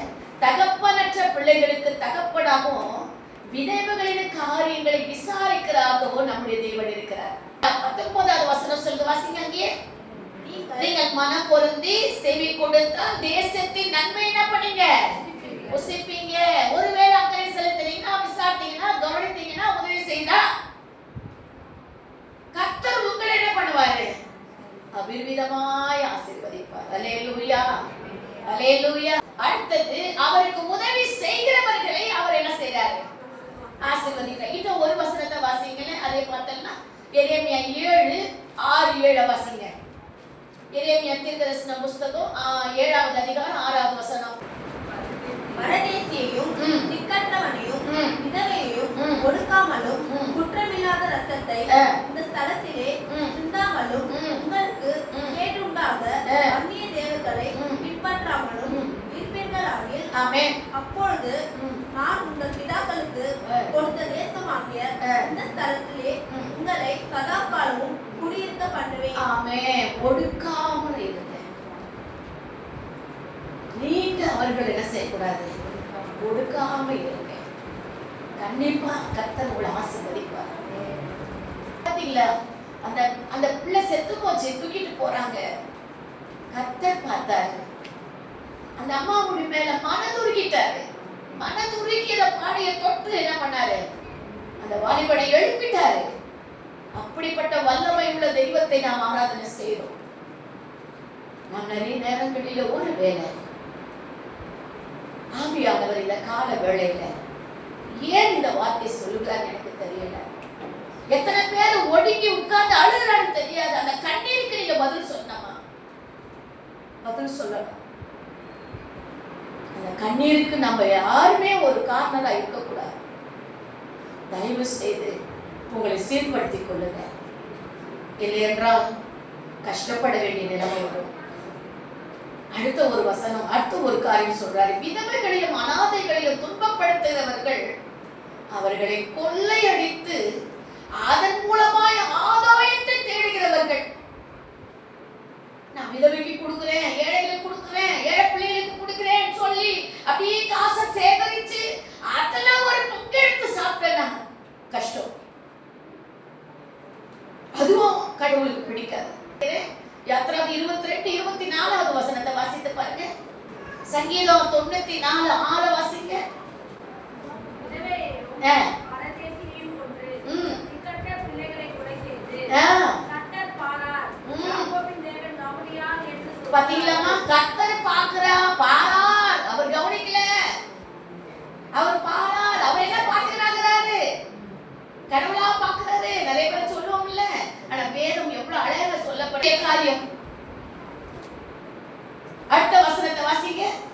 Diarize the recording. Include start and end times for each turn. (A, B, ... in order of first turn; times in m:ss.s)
0:00.4-0:09.7 A
0:10.4-0:11.0 B
0:10.8-0:15.2 A
0:15.7-0:20.4 A
0:22.6-0:24.2 A
0:24.9-0:27.8 A
0:28.5-0:33.1 A
0:33.8-0:39.7 A
0:40.7-0:44.4 A
0:45.6-1:00.1 B
0:46.6-0:46.9 A
0:47.9-0:48.2 A
0:49.0-0:49.2 A
0:50.1-0:50.4 A
0:51.7-0:52.0 A
0:53.1-0:53.4 A
0:54.1-0:54.4 A
0:55.1-0:55.4 A
0:56.3-0:56.6 A
0:57.6-0:57.8 A
0:58.7-0:59.0 A
1:00.1-1:00.6 A
1:00.7-1:01.4 B
1:01.6-1:01.8 A
1:01.9-1:09.2 B
1:03.5-1:03.8 A
1:05.0-1:05.3 A
1:09.2-1:11.4 A
1:13.8-1:15.5 A
1:16.2-1:17.4 A
1:18.4-1:20.5 A
1:21.8-1:22.3 A
1:22.8-1:25.4 A
1:26.5-1:27.6 A
1:28.8-1:30.8 A
1:31.4-1:33.8 A
1:34.6-1:36.1 A
1:37.0-1:39.9 A
1:41.5-1:43.3 A
1:45.4-1:47.1 A
1:48.0-1:50.3 A
1:51.1-1:55.6 A
1:57.0-1:57.8 A
1:59.8-2:02.9 A
2:04.3-2:05.1 A
2:05.7-2:07.1 A
2:08.2-2:08.8 A
2:09.6-2:11.1 A
2:12.5-2:17.6 A
2:18.5-2:20.2 A
2:21.0-2:23.8 A
2:25.8-2:34.2 A
2:34.7-2:35.1 A
2:37.6-2:43.1 A
2:43.9-2:46.2 A
2:47.6-2:52.5 C
2:48.4-2:48.7 A
2:50.2-2:50.6 A
2:52.5-2:53.0 A
2:53.0-2:57.2 C
2:54.3-2:54.7 A
2:56.5-3:00.4 A
3:01.8-3:04.0 A
3:05.1-3:10.0 A
3:12.5-3:13.7 A